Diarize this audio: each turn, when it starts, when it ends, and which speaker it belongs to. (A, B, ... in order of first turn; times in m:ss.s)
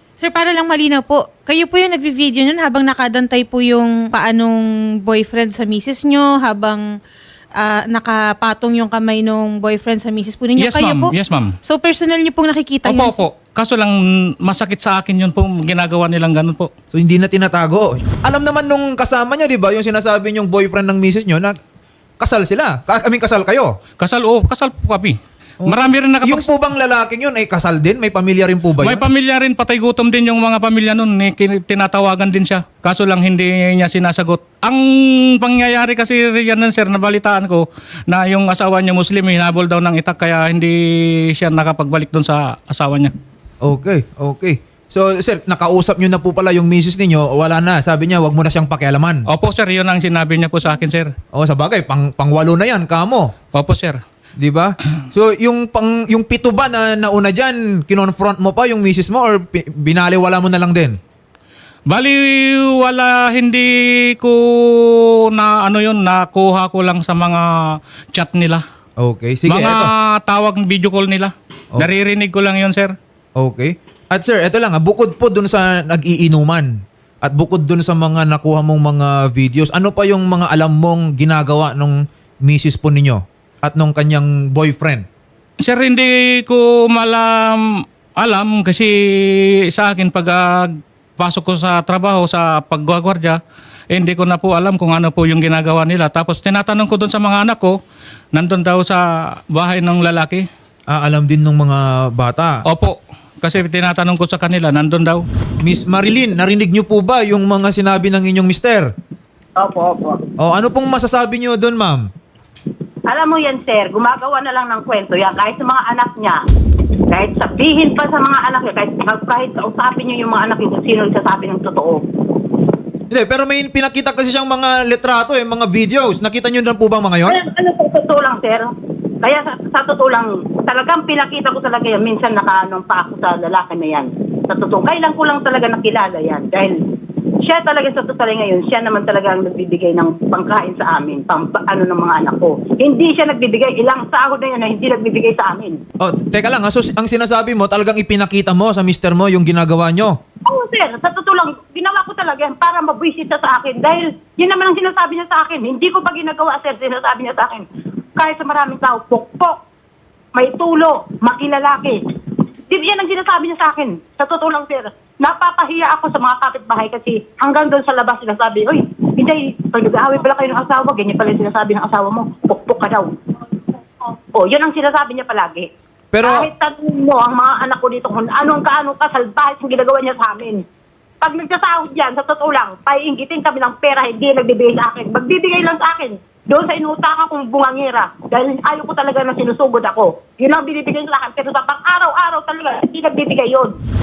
0:00.2-0:06.8 A
0:07.6-0:11.1 A
0:10.6-0:11.5 B
0:11.6-0:13.2 A
0:12.8-0:16.7 B
0:16.9-0:21.6 C
0:22.2-0:23.8 C
0:24.0-0:26.5 B
0:25.6-0:29.0 C
0:28.8-0:43.1 B
0:43.6-0:49.2 C
0:49.3-0:51.1 B
0:51.3-0:53.3 C
0:53.5-0:54.0 B
0:54.4-1:01.0 C
1:01.9-1:07.5 B
1:08.1-1:08.6 B
1:09.0-1:09.9 C
1:09.5-1:12.9 B
1:13.4-1:25.0 C
1:25.6-1:33.4 B
1:33.9-1:37.8 B
1:38.3-1:40.4 B
1:40.9-1:42.6 C
1:42.7-1:45.2 B
1:45.6-1:48.9 C
1:49.6-1:50.2 D
1:50.4-1:52.1 C
1:53.1-1:56.4 D
1:57.1-2:02.0 D
2:03.1-2:07.4 C
2:07.3-2:16.8 D
2:17.4-2:25.8 D
2:26.0-2:30.2 C
2:30.5-2:37.6 D
2:38.2-2:39.6 D
2:40.3-2:42.0 D
2:42.7-2:53.1 D
2:54.3-2:55.7 D
2:56.1-2:56.5 C
2:56.2-3:00.6 D
3:01.2-3:13.8 D